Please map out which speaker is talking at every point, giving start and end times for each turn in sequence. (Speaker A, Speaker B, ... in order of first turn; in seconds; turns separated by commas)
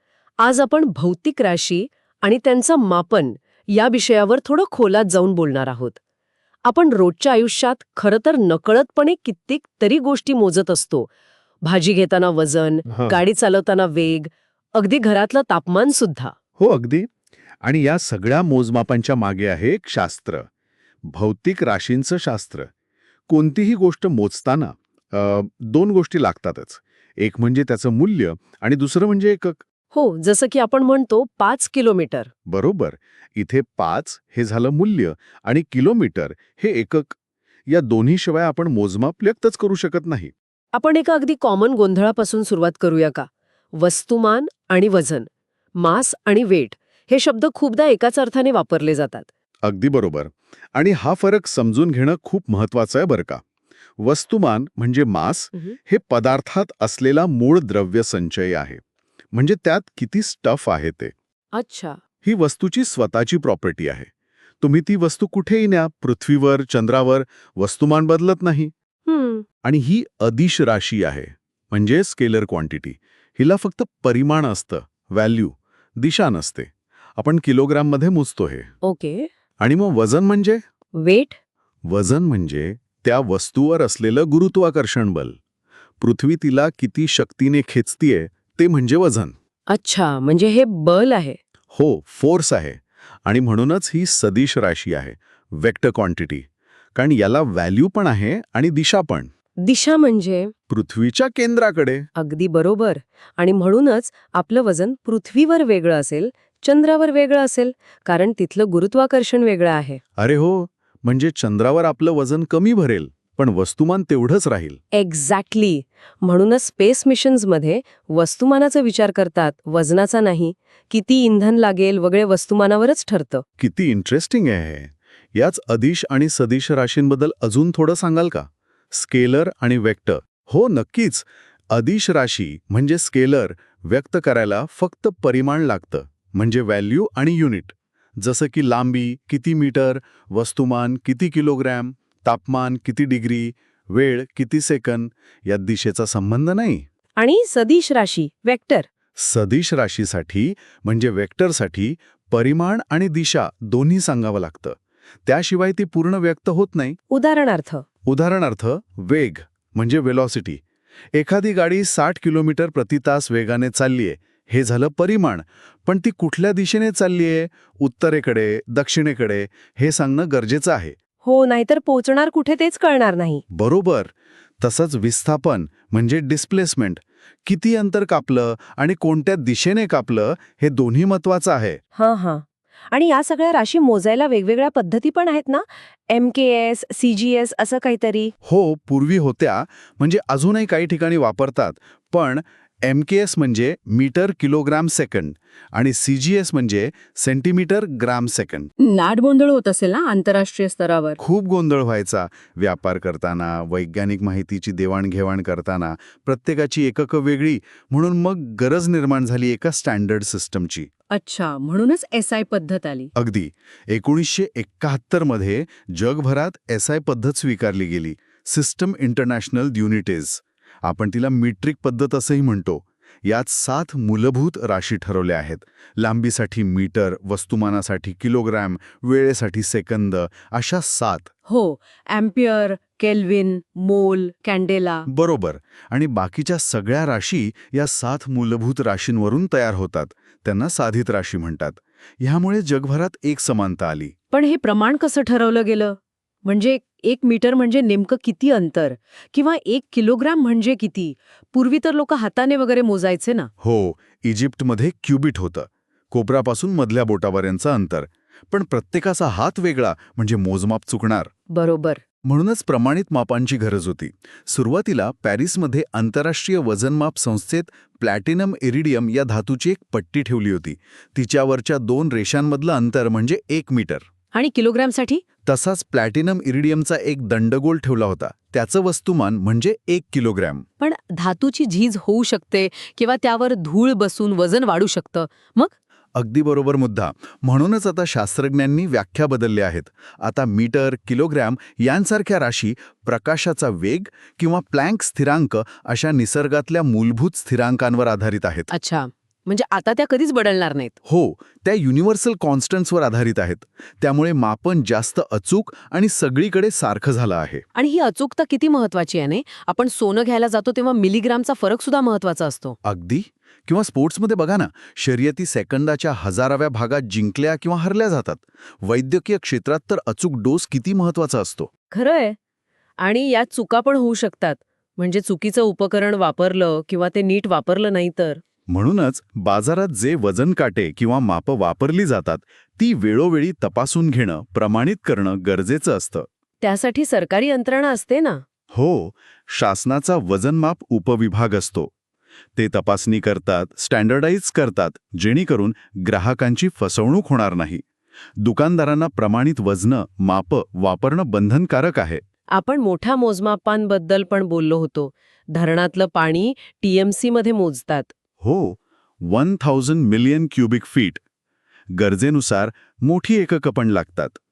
Speaker A: 0.4-6.0, Speaker A: 6.7-11.1, Speaker A: 11.6-16.3, Speaker B: 12.9-13.2, Speaker B: 16.6-17.1, Speaker B: 17.6-20.4, Speaker B: 21.1-22.7, Speaker B: 23.3-29.6, Speaker A: 29.9-32.3, Speaker B: 32.5-37.1, Speaker B: 37.7-40.3, Speaker A: 40.7-49.3, Speaker B: 49.6-53.4, Speaker B: 54.0-58.8, Speaker B: 59.3-61.1, Speaker A: 61.5-62.0, Speaker B: 62.2-64.1, Speaker B: 64.6-68.7, Speaker A: 69.0-69.4, Speaker B: 69.6-78.7, Speaker A: 78.8-79.3, Speaker B: 79.6-80.6, Speaker A: 81.0-81.3, Speaker B: 81.9-85.4, Speaker B: 86.0-89.3, Speaker A: 89.7-91.4, Speaker B: 91.7-99.3, Speaker A: 99.6-100.5, Speaker B: 100.7-102.1, Speaker A: 102.2-110.0, Speaker B: 110.2-114.8, Speaker A: 114.9-123.4, Speaker B: 123.6-146.8, Speaker A: 147.2-148.9, Speaker B: 149.2-157.0, Speaker A: 157.1-157.8, Speaker B: 158.1-160.6, Speaker B: 161.1-170.9, Speaker A: 171.2-173.4, Speaker B: 173.5-181.8, Speaker A: 181.9-188.3, Speaker B: 188.4-198.7, Speaker A: 198.8-201.2, Speaker B: 201.2-210.9, Speaker A: 211.1-213.1, Speaker B: 213.1-231.3, Speaker A: 231.5-235.1, Speaker B: 235.1-244.1, Speaker A: 244.3-253.5, Speaker B: 253.6-261.3, Speaker A: 261.5-262.0, Speaker B: 262.2-274.0, Speaker A: 274.3-275.2, Speaker B: 275.4-280.6, Speaker A: 280.8-285.7, Speaker B: 286.1-298.7, Speaker A: 298.7-300.9, Speaker B: 301.0-307.6, Speaker A: 307.7-312.8, Speaker B: 312.8-321.7, Speaker A: 321.9-322.4, Speaker A: 323.0-328.4, Speaker B: 328.7-336.3, Speaker A: 336.6-338.4, Speaker B: 338.7-341.9, Speaker B: 342.6-347.8, Speaker B: 348.4-352.2, Speaker A: 352.5-358.1, Speaker B: 358.4-361.2, Speaker B: 361.9-364.4